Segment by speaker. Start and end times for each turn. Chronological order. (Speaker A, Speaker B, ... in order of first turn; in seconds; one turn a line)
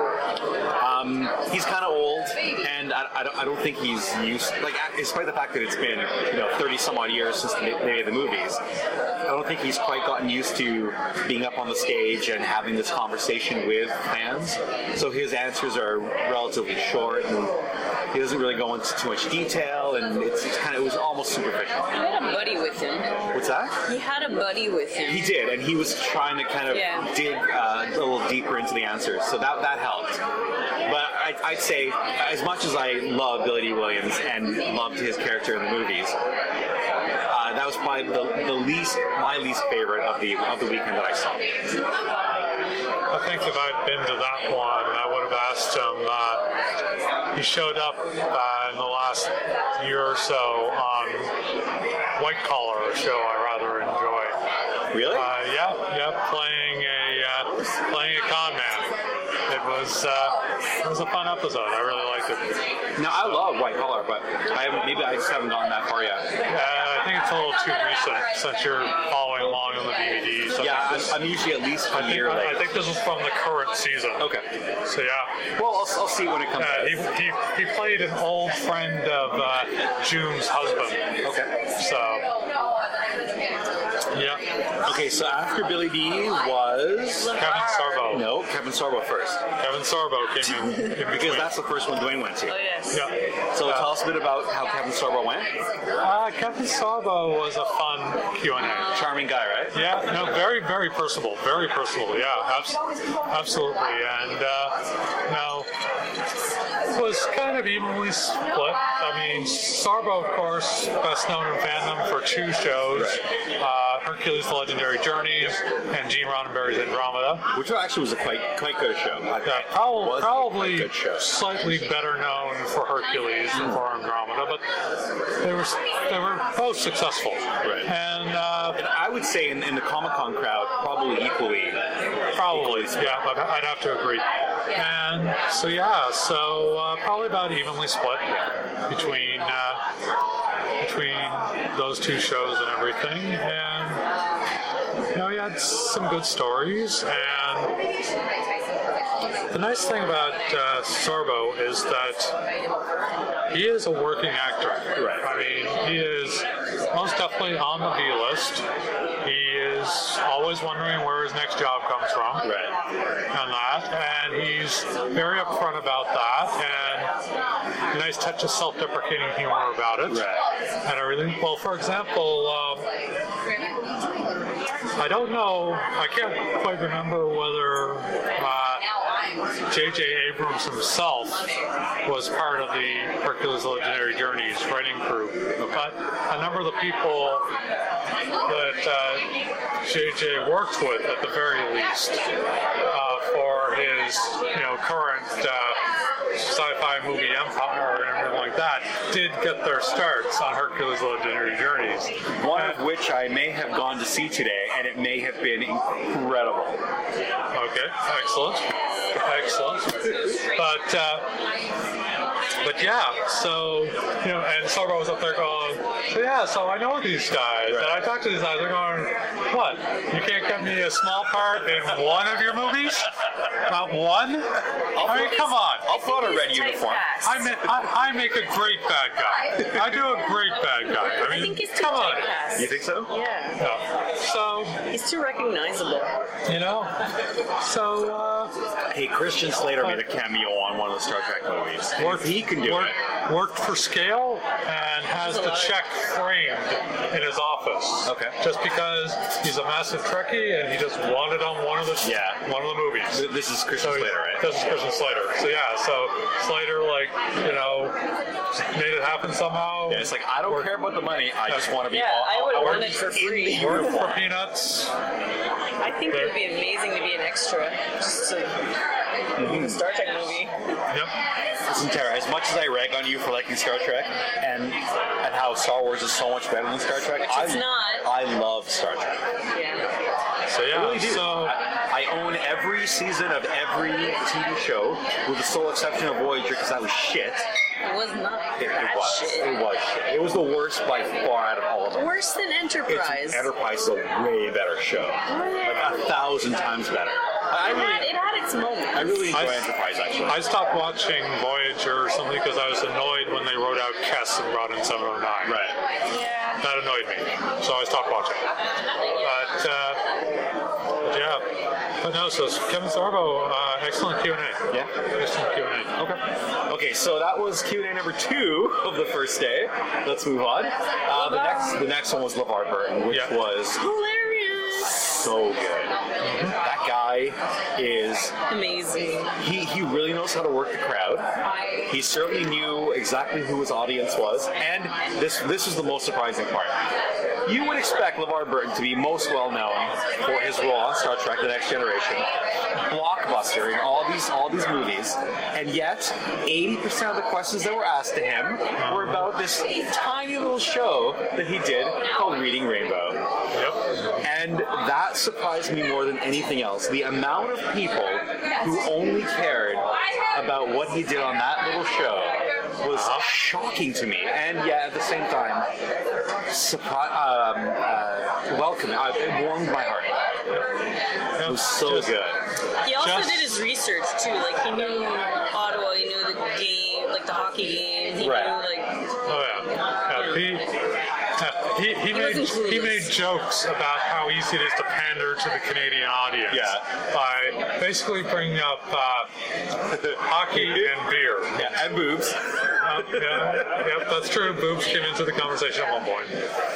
Speaker A: 0.8-8.6
Speaker A: 9.2-21.9
Speaker B: 21.9-23.3
Speaker A: 23.3-23.8
Speaker B: 23.8-25.3
Speaker A: 25.1-30.2
Speaker B: 26.7-27.1
Speaker A: 30.8-36.1
Speaker A: 37.3-41.5
Speaker C: 43.1-46.5
Speaker C: 47.3-51.4
Speaker C: 52.1-54.4
Speaker A: 54.9-55.3
Speaker C: 55.0-59.0
Speaker C: 59.5-63.4
Speaker A: 63.0-66.4
Speaker C: 66.5-71.2
Speaker A: 70.6-72.7
Speaker C: 71.9-74.3
Speaker A: 74.2-74.5
Speaker C: 74.8-75.4
Speaker A: 75.5-77.1
Speaker C: 76.5-82.3
Speaker A: 81.2-81.5
Speaker C: 84.1-84.5
Speaker A: 84.8-87.3
Speaker B: 87.2-88.2
Speaker C: 87.3-88.3
Speaker A: 88.1-89.5
Speaker C: 89.6-91.5
Speaker A: 90.4-92.6
Speaker B: 92.5-93.1
Speaker C: 92.9-93.9
Speaker A: 93.5-95.5
Speaker C: 96.0-99.0
Speaker A: 98.9-99.8
Speaker C: 99.7-105.7
Speaker C: 106.9-117.5
Speaker A: 112.9-113.2
Speaker A: 117.5-121.3
Speaker C: 119.4-124.7
Speaker A: 123.5-123.8
Speaker C: 125.4-128.8
Speaker A: 127.6-127.9
Speaker A: 128.8-131.8
Speaker C: 132.3-139.8
Speaker A: 132.3-133.2
Speaker C: 140.8-144.0
Speaker C: 145.1-147.8
Speaker C: 149.5-152.4
Speaker C: 153.5-158.7
Speaker A: 154.9-155.3
Speaker C: 159.2-162.5
Speaker A: 162.4-162.7
Speaker C: 163.3-167.1
Speaker C: 167.9-172.9
Speaker A: 170.1-170.5
Speaker C: 175.0-178.8
Speaker C: 179.7-181.5
Speaker C: 182.0-187.5
Speaker A: 185.6-185.9
Speaker C: 188.4-192.2
Speaker C: 192.8-195.8
Speaker C: 196.3-202.8
Speaker A: 202.3-206.8
Speaker C: 207.5-211.3
Speaker C: 212.6-225.9
Speaker A: 217.7-218.0
Speaker A: 224.9-227.1
Speaker B: 225.8-227.5
Speaker C: 227.2-232.4
Speaker B: 231.0-233.6
Speaker A: 232.5-233.1
Speaker C: 233.6-234.8
Speaker B: 234.9-236.1
Speaker C: 236.4-237.0
Speaker C: 237.6-238.5
Speaker A: 238.9-242.9
Speaker C: 242.0-253.2
Speaker B: 245.1-245.8
Speaker A: 248.0-248.4
Speaker A: 252.0-252.4
Speaker A: 253.1-254.8
Speaker C: 253.8-258.0
Speaker C: 258.5-260.8
Speaker A: 259.9-264.2
Speaker C: 261.4-261.8
Speaker B: 261.9-264.0
Speaker C: 262.5-264.9
Speaker B: 265.8-268.8
Speaker C: 266.1-266.4
Speaker B: 269.3-270.8
Speaker A: 269.4-269.8
Speaker C: 270.9-271.1
Speaker A: 271.6-279.2
Speaker B: 277.3-278.1
Speaker B: 279.5-279.9
Speaker C: 280.5-281.6
Speaker A: 280.7-287.5
Speaker B: 287.8-289.5
Speaker A: 288.6-292.1
Speaker B: 291.9-293.5
Speaker A: 292.9-298.1
Speaker B: 295.2-296.0
Speaker B: 297.5-299.3
Speaker A: 298.9-300.4
Speaker C: 299.3-299.7
Speaker C: 300.2-305.6
Speaker A: 305.4-305.8
Speaker B: 306.1-306.6
Speaker C: 306.6-308.4
Speaker C: 309.2-310.0
Speaker C: 311.0-316.0
Speaker A: 315.9-323.8
Speaker B: 321.1-321.8
Speaker B: 323.7-325.3
Speaker A: 325.1-328.3
Speaker C: 326.2-326.6
Speaker B: 328.5-329.4
Speaker A: 329.4-336.8
Speaker A: 337.4-353.2
Speaker C: 348.8-349.3
Speaker C: 353.5-354.2
Speaker A: 354.2-365.7
Speaker C: 362.9-363.2
Speaker A: 366.5-370.1
Speaker C: 371.3-372.2
Speaker A: 371.4-372.4
Speaker B: 372.8-379.1
Speaker C: 372.8-373.6
Speaker A: 378.2-378.6
Speaker C: 379.2-380.7
Speaker B: 380.1-380.4
Speaker C: 381.4-389.3
Speaker B: 382.1-383.1
Speaker A: 386.5-386.8
Speaker A: 389.9-390.9
Speaker C: 390.0-391.7
Speaker A: 391.5-393.7
Speaker C: 392.8-396.4